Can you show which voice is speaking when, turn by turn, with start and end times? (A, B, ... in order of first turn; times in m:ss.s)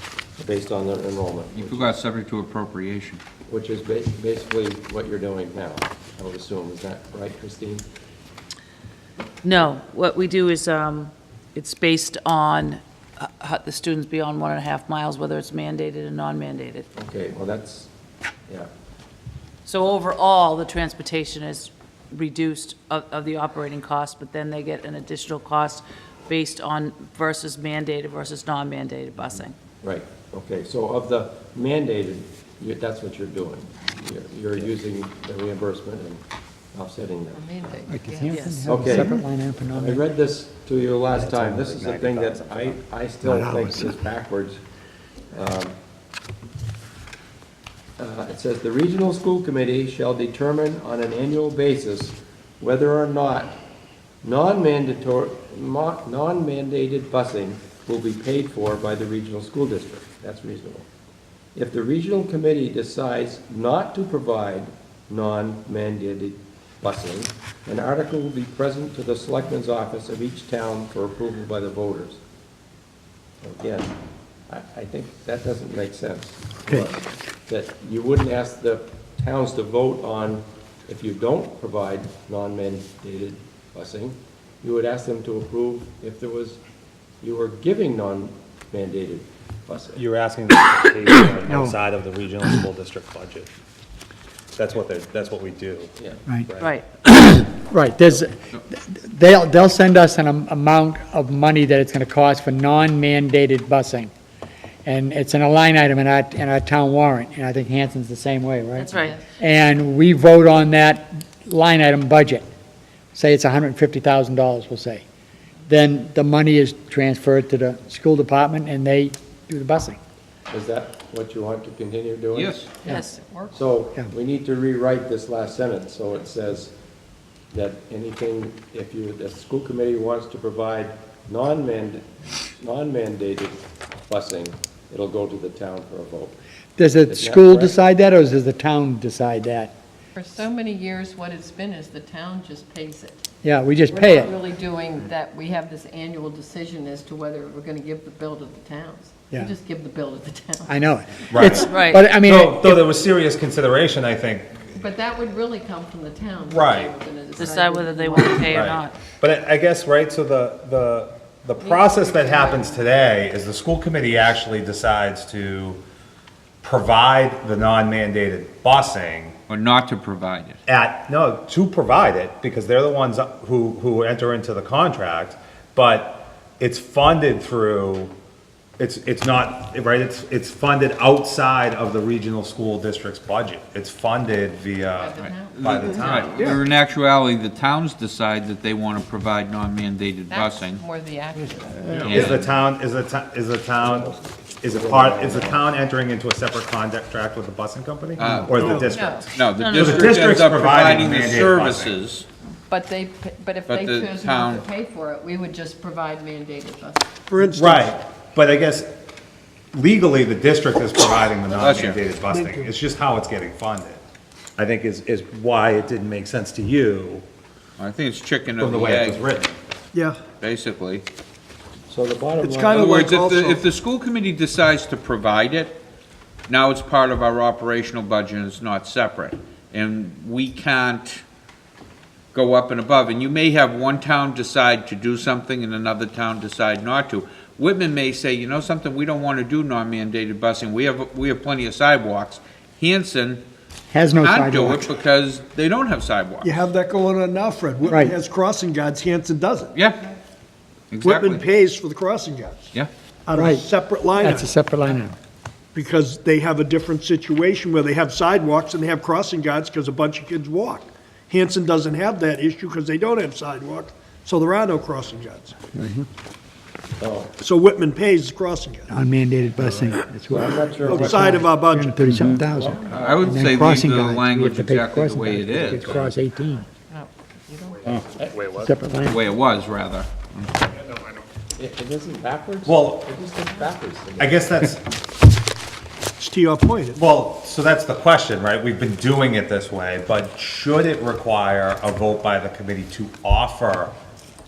0:00.4-0:02.0 A
0:01.5-0:03.2 B
0:03.5-0:07.8 A
0:09.4-0:16.8 C
0:16.9-0:17.9 A
0:19.6-0:29.5 C
0:29.8-0:36.2 A
0:36.7-0:37.5 A
0:37.3-0:39.1 D
0:37.9-0:40.0 E
0:38.3-0:38.7 C
0:38.6-0:44.6 A
0:41.1-0:42.8 F
0:43.2-0:44.0 E
0:45.3-0:45.7 A
0:48.0-0:53.6 A
0:54.2-1:00.9 A
1:01.6-1:12.2 A
1:13.4-1:13.9 A
1:14.5-1:26.6 A
1:27.2-1:30.0 A
1:29.9-1:33.5 F
1:31.4-1:31.8 E
1:34.6-1:35.9 F
1:36.0-1:36.8 A
1:36.6-1:36.8 C
1:37.0-1:44.1 E
1:44.8-1:52.4 E
1:48.7-1:49.2 C
1:48.9-1:49.2 D
1:53.1-1:55.0 E
1:55.7-2:00.0 E
2:00.5-2:02.7 A
2:02.3-2:02.7 B
2:02.8-2:03.6 D
2:02.8-2:03.2 C
2:03.5-2:06.7 A
2:07.5-2:12.1 A
2:12.6-2:16.4 A
2:16.8-2:19.7 E
2:17.0-2:17.8 A
2:20.2-2:23.2 D
2:23.4-2:24.3 E
2:23.9-2:30.8 D
2:30.7-2:32.8 E
2:31.3-2:34.7 F
2:31.3-2:31.9 D
2:31.7-2:32.1 C
2:34.8-2:38.8 D
2:36.5-2:36.9 F
2:37.4-2:39.0 C
2:38.5-2:45.8 F
2:41.6-2:42.8 D
2:46.6-2:49.3 F
2:49.5-2:50.6 B
2:50.6-2:58.1 F
2:58.8-3:06.6 F
3:05.0-3:06.6 D
3:05.2-3:10.8 B
3:10.3-3:12.4 D
3:11.9-3:12.2 G
3:11.9-3:12.5 B
3:12.1-3:22.0 F
3:13.8-3:15.6 A
3:18.2-3:18.6 B
3:18.5-3:19.0 G
3:18.8-3:19.4 D
3:19.3-3:22.2 B
3:19.5-3:20.1 C
3:22.7-3:27.1 D
3:23.7-3:24.6 B
3:27.3-3:28.0 G
3:27.5-3:28.9 F
3:29.7-3:34.0 F
3:31.6-3:32.0 B
3:32.3-3:32.7 G
3:34.6-3:37.2 F
3:37.8-3:39.3 B
3:38.6-3:39.5 F
3:39.9-3:40.2 G
3:40.4-3:41.0 B
3:41.9-3:43.0 A
3:42.4-3:43.6 G
3:42.7-3:45.8 B
3:46.5-3:51.2 B
3:52.3-4:03.4 B
4:03.9-4:04.9 E
4:04.2-4:06.6 B
4:06.4-4:09.7 G
4:07.9-4:08.2 E
4:09.7-4:10.0 B
4:10.9-4:11.4 B
4:11.0-4:12.7 G
4:13.2-4:14.5 G
4:13.4-4:13.6 E
4:14.2-4:15.2 E
4:15.7-4:25.6 G
4:25.8-4:26.0 E
4:27.0-4:27.3 A
4:27.4-4:28.9 G
4:28.9-4:36.7 E
4:30.3-4:31.4 A
4:30.8-4:32.0 G
4:32.5-4:33.2 A
4:32.9-4:36.1 B
4:36.9-4:38.4 D
4:38.2-4:38.5 A
4:38.5-4:39.2 E
4:39.0-4:40.7 B
4:41.6-4:44.7 A
4:42.6-4:43.1 F
4:44.2-4:44.8 F
4:46.2-4:47.0 G
4:47.0-4:53.9 F